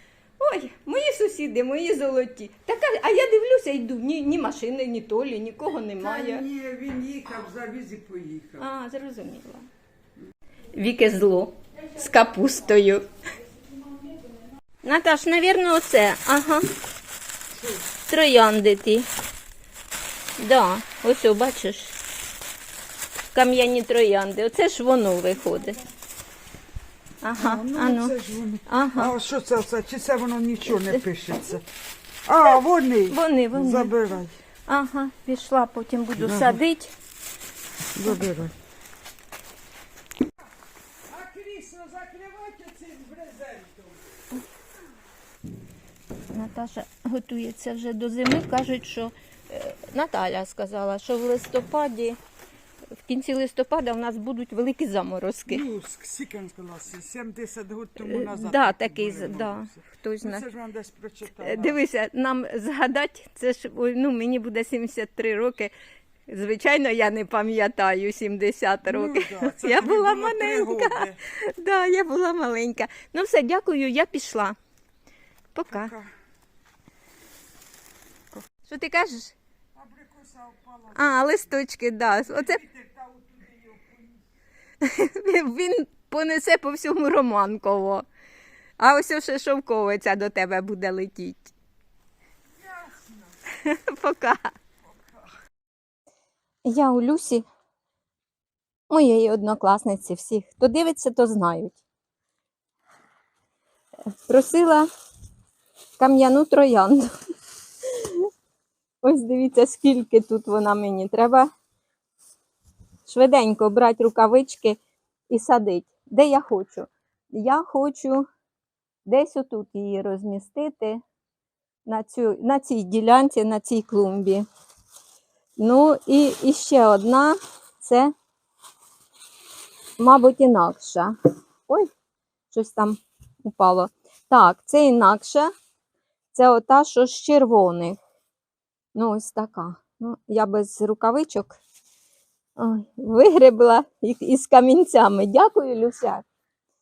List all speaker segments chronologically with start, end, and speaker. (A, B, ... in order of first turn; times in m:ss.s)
0:00.4-0:06.4 A
0:06.0-0:08.6 B
0:08.6-0:09.6 A
0:10.7-0:13.1 A
0:14.8-0:16.7 A
0:18.0-0:19.1 A
0:20.4-0:21.9 A
0:23.3-0:25.8 A
0:27.2-0:28.1 A
0:27.4-0:31.6 B
0:28.6-0:29.1 A
0:32.2-0:34.4 B
0:33.1-0:33.9 A
0:34.7-0:36.9 A
0:36.2-0:36.6 B
0:37.9-0:38.5 B
0:41.1-0:44.0 B
0:46.3-0:52.2 A
0:53.0-0:55.6 A
0:55.5-1:01.8 B
0:58.0-1:00.4 A
1:01.4-1:05.7 A
1:06.3-1:14.6 A
1:08.8-1:11.2 B
1:15.5-1:15.9 A
1:15.7-1:16.1 B
1:18.6-1:19.3 A
1:19.7-1:21.2 B
1:20.9-1:22.6 A
1:22.3-1:24.2 B
1:24.8-1:28.0 A
1:28.8-1:31.5 A
1:32.6-1:33.1 B
1:33.5-1:34.6 A
1:36.6-1:37.4 A
1:38.9-1:41.8 A
1:44.3-1:44.9 A
1:46.0-1:47.1 A
1:47.9-1:48.2 A
1:49.0-1:51.5 A
1:53.1-1:54.8 A
1:55.3-1:58.3 A
1:59.0-2:01.0 A
2:01.8-2:04.4 A
2:05.6-2:08.1 A
2:10.0-2:11.1 A
2:12.5-2:15.5 A
2:16.3-2:18.0 A
2:18.9-2:21.6 A
2:22.6-2:26.2 A